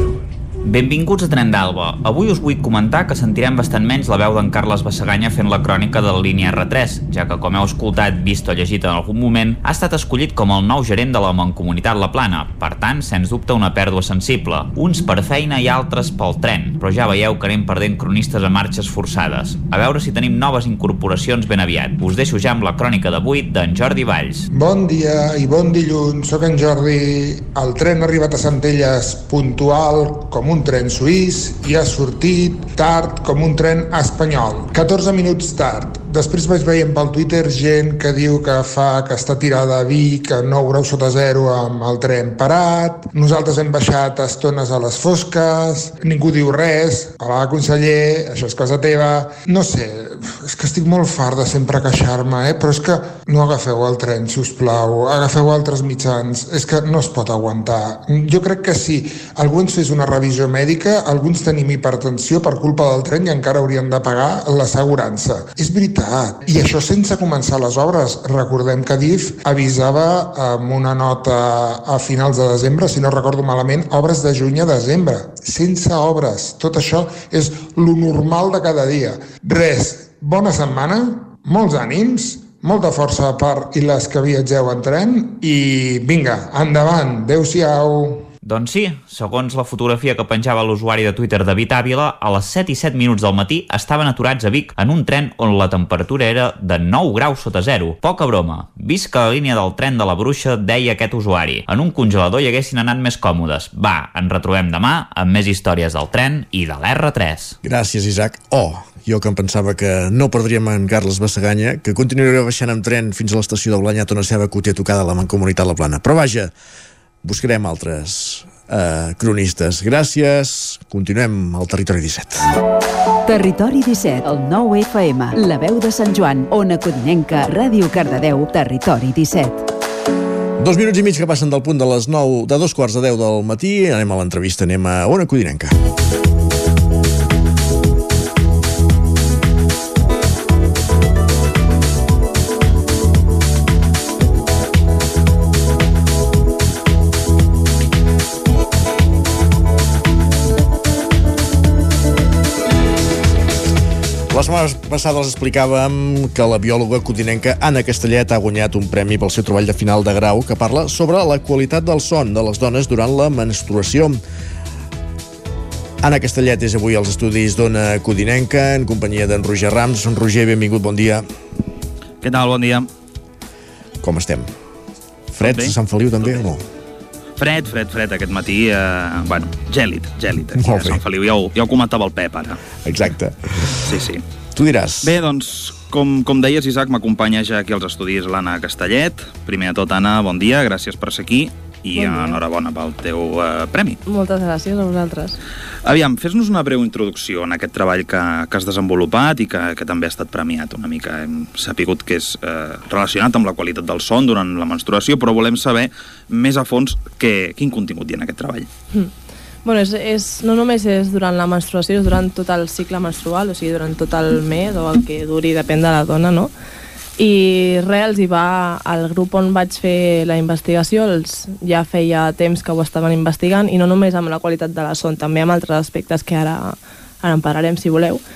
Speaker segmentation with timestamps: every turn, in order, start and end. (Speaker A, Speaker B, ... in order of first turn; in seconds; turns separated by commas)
Speaker A: 0.6-24.4, Speaker B: 24.5-88.3, Speaker A: 88.4-107.5, Speaker C: 107.6-116.5, Speaker C: 117.2-122.5, Speaker D: 123.2-129.7, Speaker C: 130.6-135.7, Speaker C: 154.3-164.2, Speaker C: 166.0-171.2, Speaker E: 172.2-172.9, Speaker C: 174.0-174.5, Speaker C: 175.3-176.6, Speaker E: 175.4-176.4, Speaker E: 177.4-182.6, Speaker C: 180.6-181.0, Speaker C: 182.8-183.8, Speaker E: 183.9-184.2, Speaker C: 184.5-185.1, Speaker E: 185.0-194.0, Speaker F: 191.9-192.4, Speaker F: 194.1-195.4, Speaker E: 195.8-208.7, Speaker F: 209.6-216.5, Speaker F: 217.2-228.2